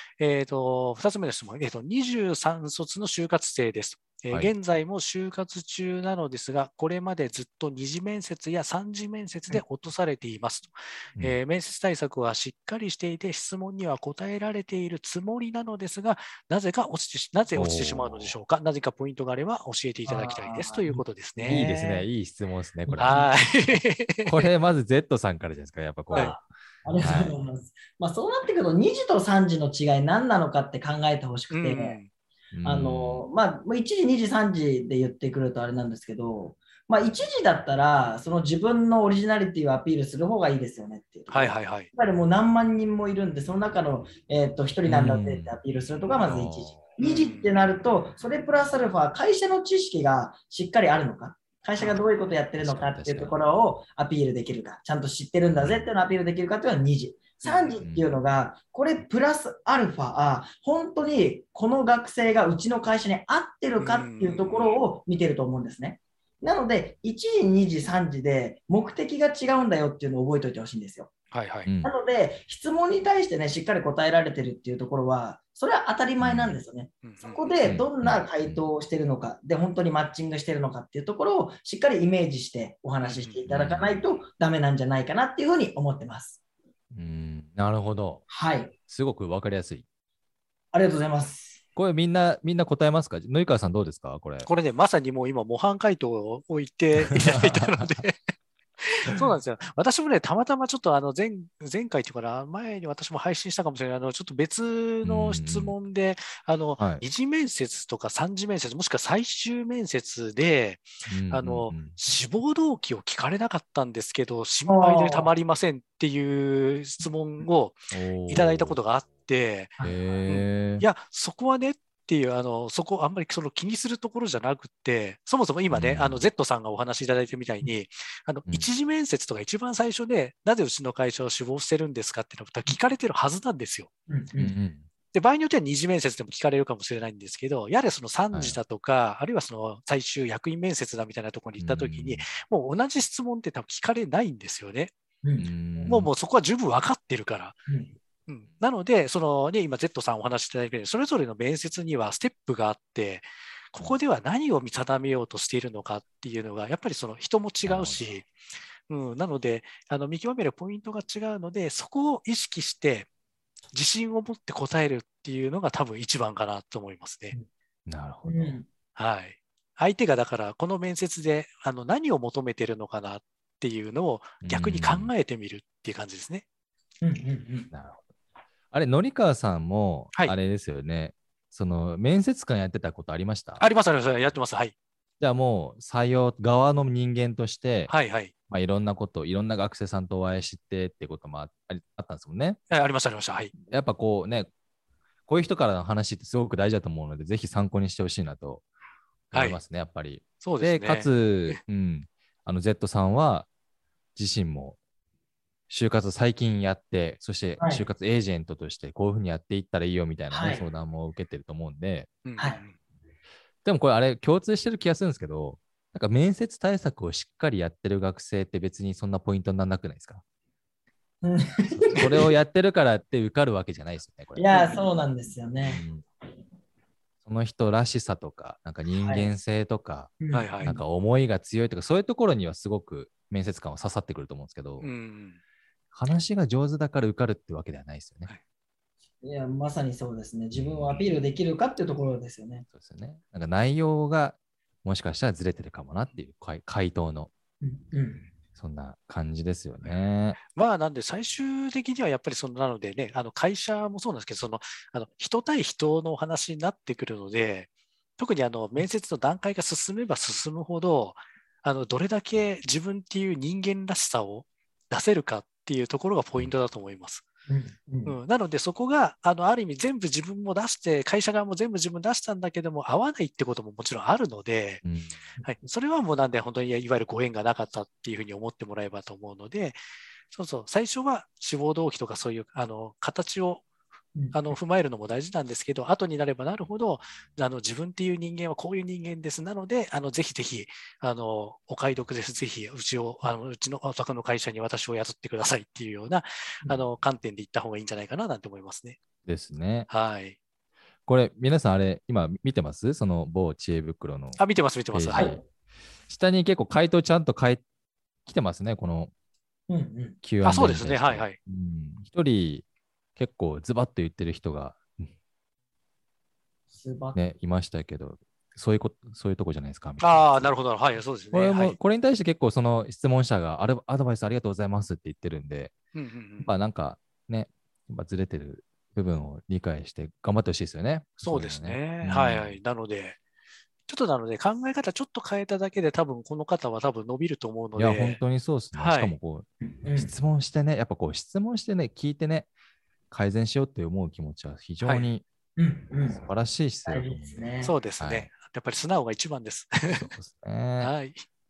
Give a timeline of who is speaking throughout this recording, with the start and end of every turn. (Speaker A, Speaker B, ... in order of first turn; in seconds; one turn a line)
Speaker A: 0.2-21.6
Speaker B: 17.5-18.3
Speaker C: 20.1-22.1
Speaker B: 21.4-23.3
Speaker C: 22.9-23.3
Speaker A: 23.0-24.5
Speaker B: 24.2-26.4
Speaker C: 26.1-32.0
Speaker B: 27.0-27.4
Speaker A: 31.5-32.1
Speaker B: 32.5-33.3
Speaker C: 32.6-71.1
Speaker A: 41.3-41.9
Speaker B: 44.9-45.6
Speaker B: 46.2-46.8
Speaker A: 47.0-47.5
Speaker B: 52.6-53.4
Speaker B: 55.6-55.8
Speaker A: 57.4-57.8
Speaker B: 57.8-58.1
Speaker A: 63.8-64.8
Speaker A: 71.3-71.7
Speaker B: 71.7-71.9
Speaker C: 71.8-86.4
Speaker B: 76.2-76.6
Speaker A: 77.0-77.5
Speaker B: 77.6-78.6
Speaker A: 83.0-83.4
Speaker B: 83.5-84.0
Speaker B: 86.9-88.2
Speaker C: 88.3-88.7
Speaker B: 88.9-89.8
Speaker C: 90.7-91.6
Speaker B: 91.7-94.5
Speaker A: 94.5-98.2
Speaker B: 97.2-97.9
Speaker A: 98.8-119.7
Speaker B: 105.0-105.7
Speaker B: 106.8-107.0
Speaker B: 111.1-112.0
Speaker C: 114.7-115.3
Speaker B: 117.9-118.8
Speaker B: 119.8-120.8
Speaker A: 120.3-133.9
Speaker B: 125.7-126.2
Speaker C: 134.1-134.5
Speaker B: 134.4-134.9
Speaker A: 135.1-144.9
Speaker B: 138.3-138.6
Speaker B: 141.6-142.3
Speaker C: 145.2-145.5
Speaker B: 145.4-146.1
Speaker A: 145.8-147.6
Speaker C: 147.7-147.9
Speaker A: 148.3-158.3
Speaker B: 157.6-158.1
Speaker A: 158.9-163.1
Speaker A: 163.7-167.3
Speaker B: 167.9-168.6
Speaker C: 168.2-168.6
Speaker A: 168.9-176.4
Speaker B: 174.4-175.1
Speaker C: 177.0-177.7
Speaker B: 177.7-178.0
Speaker B: 178.7-183.7
Speaker A: 183.6-184.7
Speaker B: 185.2-187.9
Speaker A: 187.9-188.3
Speaker B: 188.5-192.6
Speaker A: 192.7-193.5
Speaker B: 193.7-194.5
Speaker B: 195.3-198.6
Speaker B: 199.3-203.5
Speaker A: 199.3-199.6
Speaker A: 200.4-201.6
Speaker B: 204.1-204.8
Speaker B: 205.7-212.1
Speaker C: 207.6-207.8
Speaker C: 210.3-210.6
Speaker A: 212.2-212.8
Speaker B: 213.6-220.2
Speaker C: 221.2-222.3
Speaker B: 221.7-224.7
Speaker C: 224.3-225.8
Speaker B: 225.6-226.0
Speaker B: 227.2-234.9
Speaker C: 229.0-229.3
Speaker C: 230.2-230.8
Speaker A: 230.3-230.7
Speaker A: 234.8-235.4
Speaker B: 235.9-238.3
Speaker C: 239.2-242.7
Speaker B: 240.5-241.0
Speaker B: 242.7-247.3
Speaker C: 247.6-248.3
Speaker B: 248.5-250.4
Speaker A: 250.5-267.2
Speaker C: 267.5-268.2
Speaker A: 268.1-274.8
Speaker B: 274.8-275.2
Speaker A: 275.4-279.8
Speaker A: 280.3-283.6
Speaker A: 284.3-299.0
Speaker B: 299.2-299.9
Speaker A: 299.9-300.4
Speaker B: 301.1-305.4
Speaker A: 304.4-305.3
Speaker C: 305.1-305.4
Speaker B: 306.1-307.6
Speaker B: 308.2-309.1
Speaker C: 309.7-310.2
Speaker B: 310.2-312.6
Speaker A: 310.4-311.4
Speaker B: 313.1-315.1
Speaker C: 316.7-317.2
Speaker B: 317.1-320.5
Speaker A: 320.0-321.8
Speaker B: 321.3-325.7
Speaker A: 325.9-326.5
Speaker B: 326.4-332.6
Speaker A: 331.2-333.2
Speaker A: 333.9-338.2
Speaker B: 337.8-342.5
Speaker A: 338.7-339.1
Speaker C: 339.6-340.1
Speaker B: 343.1-345.2
Speaker A: 344.8-345.1
Speaker C: 345.6-346.2
Speaker B: 346.1-347.5
Speaker C: 346.9-347.7
Speaker A: 347.6-350.1
Speaker B: 348.0-348.3
Speaker B: 349.9-350.9
Speaker A: 350.8-351.2